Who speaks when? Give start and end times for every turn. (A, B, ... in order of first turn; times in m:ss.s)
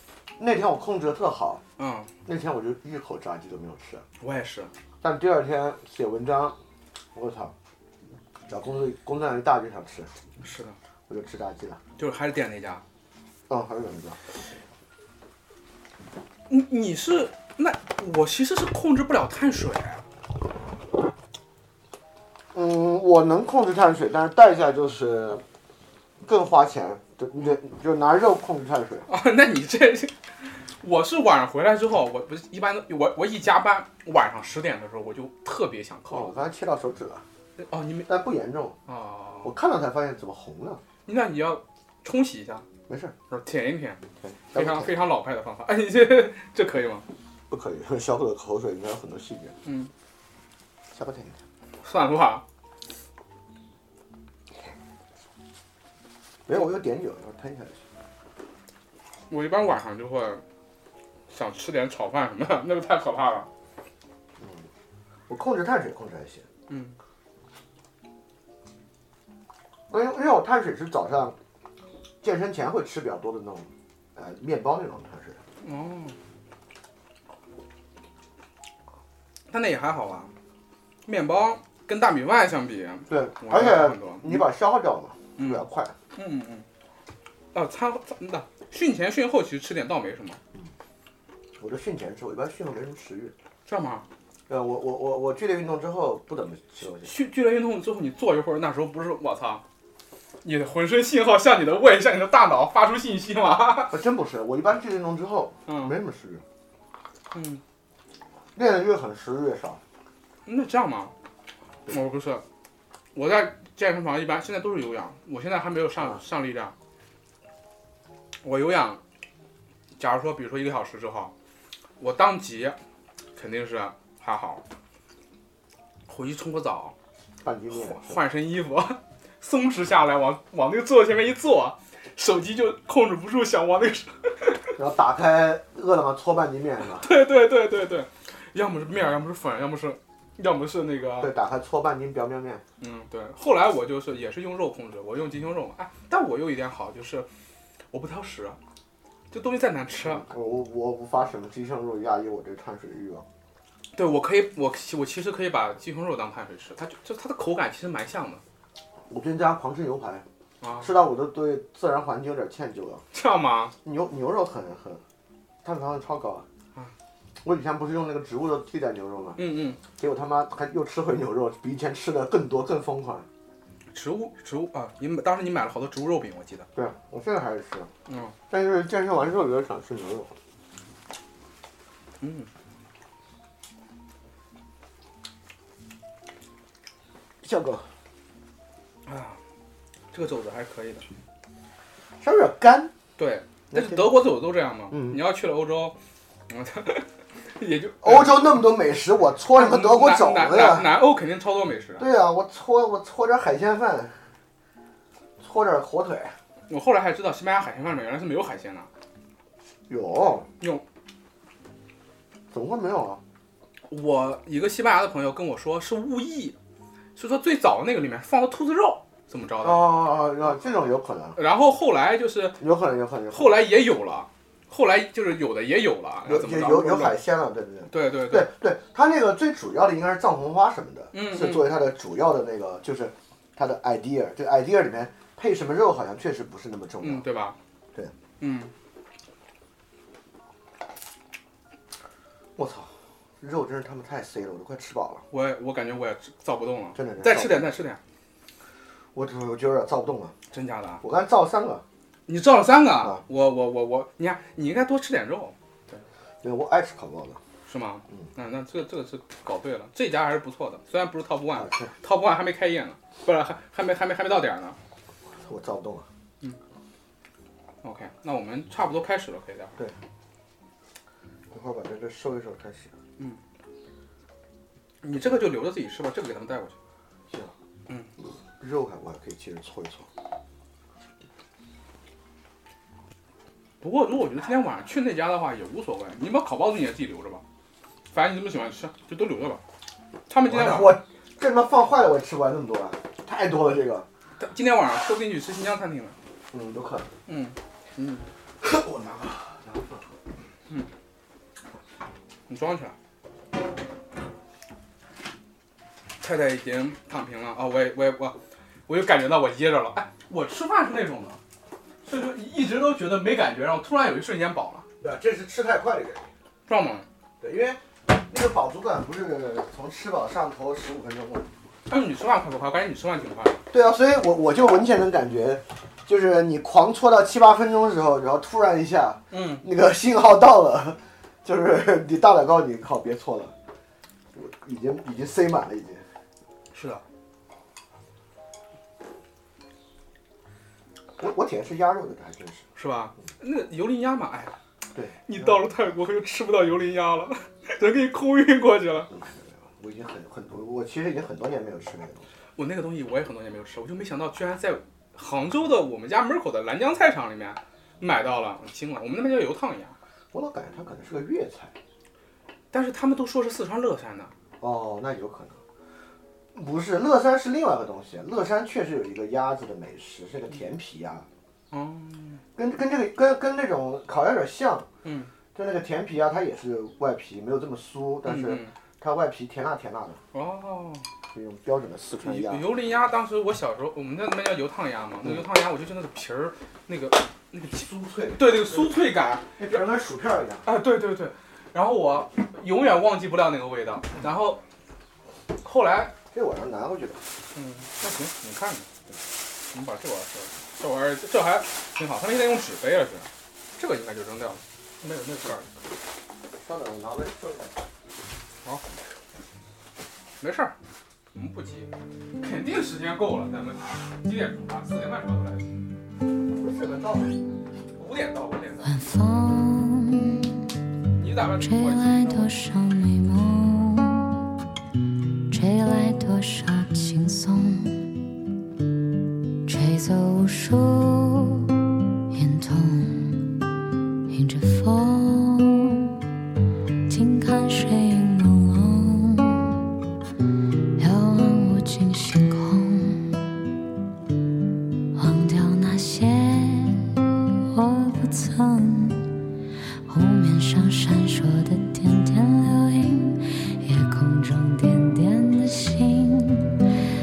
0:00.4-0:01.6 A
0:01.8-0:02.1 B
0:02.2-0:04.0 A
0:04.2-0:04.7 B
0:05.0-0:06.6 A
0:07.1-0:07.5 A
0:08.5-0:10.1 A
0:10.4-0:10.8 B
0:11.1-0:11.8 A
0:12.0-0:12.8 B
0:13.5-0:14.2 A
0:16.5-0:20.0 B
0:22.5-0:25.4 A
0:26.2-0:29.1 A
0:29.1-0:36.4 B
0:36.1-0:37.2 A
0:37.6-0:38.1 B
0:38.0-0:38.8 A
0:38.9-0:39.5 B
0:39.4-0:40.8 A
0:41.0-0:42.6 B
0:42.9-0:43.1 A
0:43.3-0:44.0 B
0:44.2-0:44.9 A
0:44.5-0:47.0 B
0:47.5-0:49.5 A
0:49.6-0:49.9 B
0:50.9-0:51.4 A
0:51.8-0:52.4 B
0:56.4-0:57.8 A
0:59.3-1:00.4 B
1:01.3-1:03.5 B
1:04.4-1:04.7 A
1:05.3-1:06.4 A
1:06.7-1:07.0 B
1:09.9-1:11.4 A
1:12.2-1:15.4 A
1:15.6-1:16.2 B
1:19.5-1:20.3 B
1:21.0-1:24.4 B
1:23.1-1:25.9 A
1:25.4-1:25.6 B
1:26.1-1:26.6 B
1:27.5-1:30.4 B
1:31.6-1:33.3 A
1:33.6-1:34.0 B
1:34.5-1:37.1 A
1:37.0-1:39.6 B
1:40.4-1:44.0 B
1:43.9-1:46.4 A
1:45.7-1:45.9 B
1:47.3-1:47.6 B
1:48.6-1:49.8 A
1:50.4-1:51.1 B
1:51.9-1:52.4 B
1:53.1-1:56.7 B
1:58.4-1:59.0 B
2:00.0-2:01.3 B
2:02.0-2:02.8 B
2:03.4-2:04.6 B
2:06.1-2:06.9 B
2:07.4-2:08.2 A
2:07.7-2:14.8 B
2:14.8-2:17.1 A
2:16.9-2:21.3 B
2:21.2-2:22.6 A
2:22.8-2:27.3 B
2:27.9-2:28.6 B
2:29.3-2:30.2 B
2:30.0-2:33.2 A
2:33.9-2:38.4 B
2:39.1-2:40.2 A
2:40.6-2:40.9 B
2:40.8-2:43.0 A
2:43.1-2:43.7 B
2:43.8-2:45.0 A
2:45.6-2:46.4 A
2:47.4-2:49.4 A
2:49.4-2:49.8 B
2:50.0-2:53.3 A
2:53.9-2:56.7 B
2:56.7-2:57.9 A
2:58.1-2:58.3 B
2:58.5-3:00.3 A
3:02.2-3:02.5 B
3:07.4-3:07.9 A
3:09.0-3:09.4 B
3:10.1-3:11.1 B
3:12.2-3:12.9 A
3:13.2-3:16.0 B
3:13.7-3:14.1 A
3:14.9-3:15.2 A
3:16.5-3:18.5 B
3:18.0-3:21.0 A
3:19.5-3:22.0 B
3:22.0-3:24.2 A
3:25.4-3:26.4 A
3:26.7-3:28.9 B
3:29.9-3:30.5 A
3:30.6-3:30.8 B
3:32.5-3:33.2 A
3:33.9-3:36.6 B
3:37.2-3:39.9 B
3:39.6-3:41.4 A
3:41.4-3:42.6 B
3:42.6-3:43.6 A
3:43.3-3:47.2 B
3:46.2-3:57.2 A
3:47.9-3:48.5 B
3:51.1-3:51.7 B
3:57.0-3:57.6 B
3:58.4-3:58.7 B
4:02.6-4:05.2 A
4:05.3-4:08.0 B
4:06.9-4:07.6 A
4:09.1-4:10.3 A
4:10.5-4:11.0 B
4:11.0-4:11.8 A
4:12.3-4:16.0 B
4:16.4-4:17.4 A
4:17.6-4:24.8 B
4:21.5-4:21.9 A
4:25.4-4:26.1 A
4:27.8-4:29.8 B
4:31.5-4:32.9 A
4:35.0-4:36.7 B
4:38.2-4:40.1 A
4:43.8-4:47.4 B
4:48.1-4:49.6 B
4:50.3-4:51.0 B
4:50.4-4:54.1 A
4:54.4-4:56.2 B
4:56.5-4:57.1 A
4:57.3-4:58.3 B
4:58.6-5:00.2 A
5:02.5-5:02.9 B
5:06.2-5:08.4 B
5:08.9-5:11.4 B
5:12.0-5:14.8 B
5:15.0-5:16.3 A
5:16.7-5:17.0 B
5:17.4-5:21.5 A
5:21.9-5:23.6 B
5:23.7-5:33.5 A
5:29.3-5:29.6 B
5:34.3-5:36.1 A
5:36.7-5:37.0 B
5:41.2-5:42.6 A
5:42.8-5:44.5 B
5:44.9-5:45.2 A
5:45.2-5:49.1 B
5:49.1-5:52.2 A
5:52.6-5:59.9 B
6:00.3-6:01.7 A
6:02.7-6:04.3 B
6:04.6-6:05.6 A
6:06.5-6:11.3 A
6:11.7-6:12.4 B
6:12.6-6:14.9 A
6:15.0-6:15.3 B
6:15.5-6:20.2 A
6:18.2-6:18.7 B
6:20.3-6:21.0 B
6:21.3-6:22.7 A
6:22.2-6:29.8 B
6:27.8-6:28.9 A
6:29.6-6:30.7 A
6:30.6-6:34.6 B
6:35.6-6:36.1 B
6:36.3-6:37.2 A
6:37.5-6:38.9 B
6:39.7-6:45.8 B
6:46.6-6:47.8 A
6:50.4-6:50.7 B
6:51.3-6:55.7 B
6:56.5-6:57.4 A
6:58.0-6:58.9 B
6:58.8-7:00.6 C
7:01.1-7:02.6 B
7:01.6-7:04.5 C
7:05.5-7:08.1 C
7:09.6-7:11.8 C
7:12.3-7:13.6 C
7:14.3-7:16.1 C
7:17.1-7:19.8 C
7:21.0-7:23.6 C
7:25.1-7:29.3 C
7:30.0-7:36.8 C